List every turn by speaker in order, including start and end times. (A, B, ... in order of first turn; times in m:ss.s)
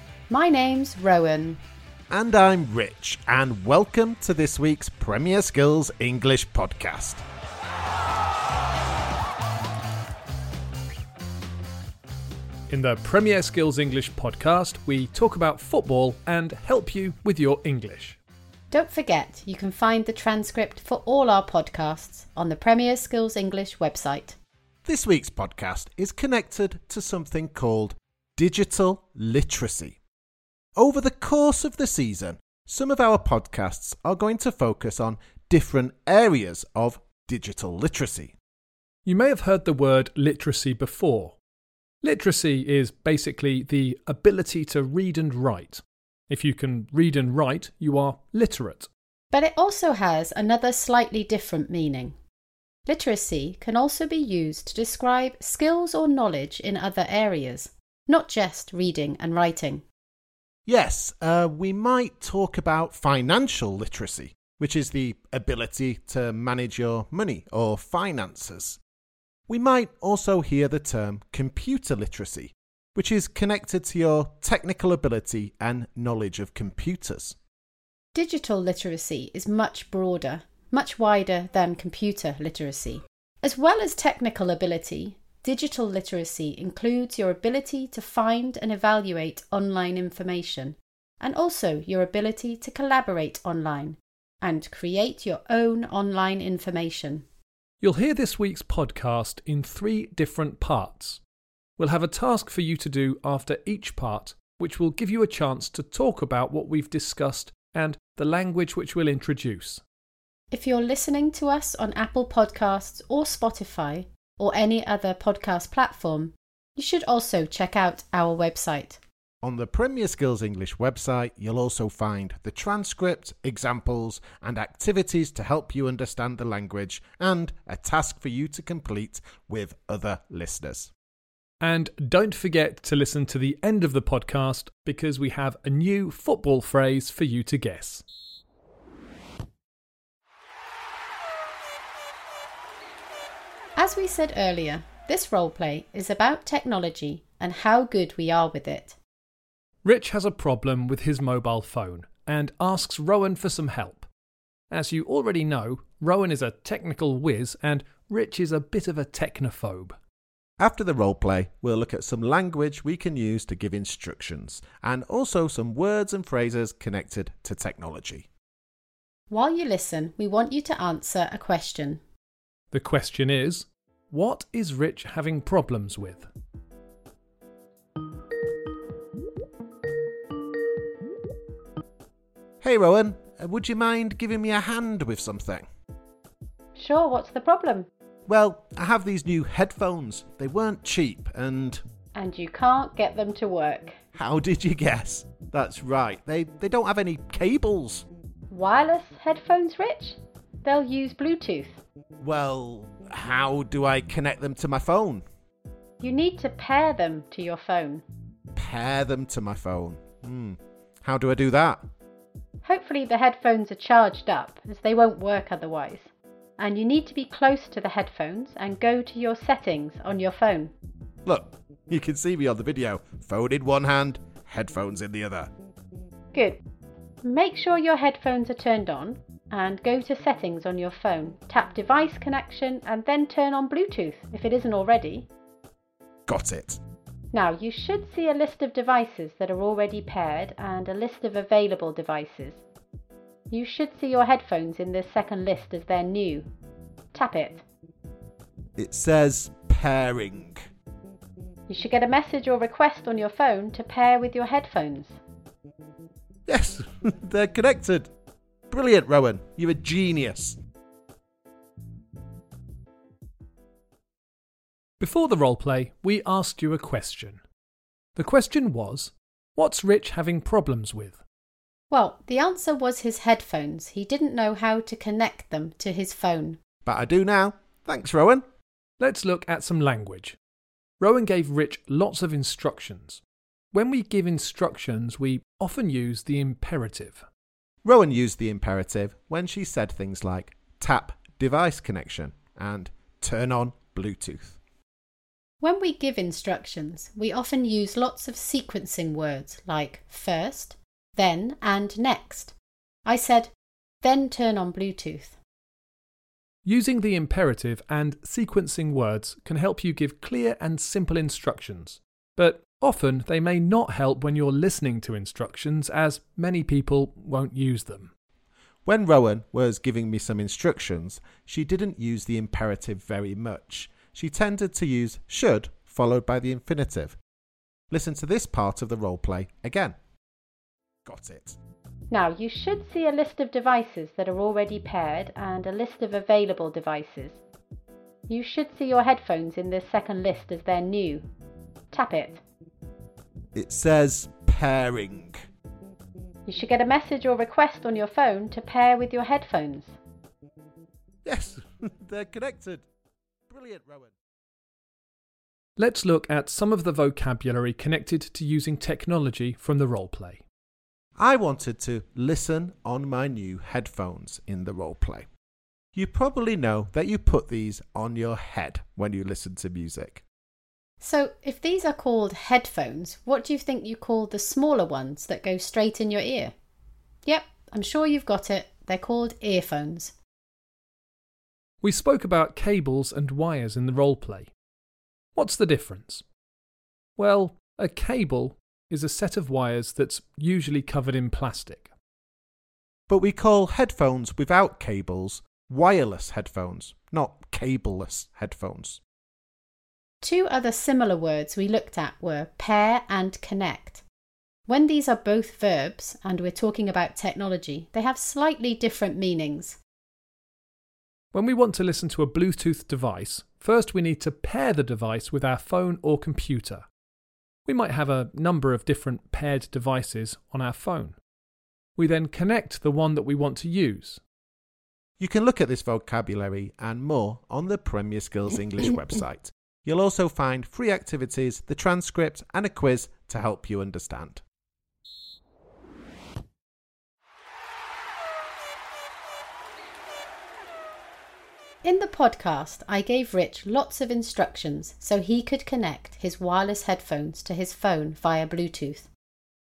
0:00.3-0:01.6 A
0:02.1-0:07.2 B
0:12.7-0:18.2 C
0:18.7-0:24.4 A
0:24.8-0:30.0 B
0:30.8-0:38.3 B
0:39.0-0:41.4 C
0:42.0-0:48.9 C
0:49.3-0:52.2 A
0:52.9-0:59.8 A
1:00.6-1:08.8 B
1:09.5-1:17.4 B
1:18.1-1:37.2 A
1:37.8-1:41.2 C
1:41.8-1:49.8 C
1:50.5-1:59.0 A
1:59.4-2:10.9 B
2:11.6-2:18.0 C
2:23.8-2:29.0 A
2:29.8-2:34.1 C
2:34.7-2:40.0 C
2:40.6-2:48.3 B
2:49.3-2:52.0 A
2:52.7-2:56.3 C
3:02.6-3:05.6 B
3:06.7-3:07.9 A
3:08.3-3:11.8 B
3:12.1-3:14.0 A
3:14.1-3:18.0 B
3:18.5-3:21.8 A
3:22.2-3:25.2 B
3:26.0-3:28.0 A
3:28.6-3:31.8 B
3:32.6-3:40.7 A
3:41.2-3:45.5 B
3:46.3-3:46.6 A
3:47.2-3:55.3 A
3:56.3-3:56.8 B
3:57.3-4:02.6 A
4:03.5-4:06.5 A
4:07.1-4:07.6 A
4:08.8-4:10.6 B
4:11.7-4:15.2 A
4:16.5-4:18.1 B
4:18.7-4:20.6 B
4:25.0-4:27.4 C
4:28.2-4:31.2 C
4:31.9-4:36.6 A
4:36.8-4:38.4 B
4:39.0-4:40.4 C
4:41.0-4:43.2 C
4:43.7-4:47.2 C
4:47.8-4:54.6 B
4:55.6-5:05.4 A
5:06.6-5:18.1 C
5:18.8-5:27.2 B
5:27.9-5:29.9 B
5:31.0-5:31.6 B
5:32.1-5:37.4 A
5:38.3-5:41.3 A
5:41.9-5:42.4 A
5:43.5-5:45.4 B
5:46.4-5:50.0 A
5:51.2-5:52.8 B
5:53.5-5:54.1 B
5:55.8-6:00.4 C
6:01.2-6:05.2 B
6:05.9-6:10.2 B
6:11.0-6:16.5 A
6:17.2-6:20.2 A
6:21.8-6:24.5 C
6:25.4-6:26.2 C
6:27.2-6:31.9 C
6:33.1-6:39.0 B
6:40.2-6:44.0 A
6:44.7-6:49.8 A
6:51.3-6:56.8 C
6:57.6-7:01.2 C
7:02.0-7:04.2 C
7:05.2-7:14.4 B
7:21.8-7:29.1 A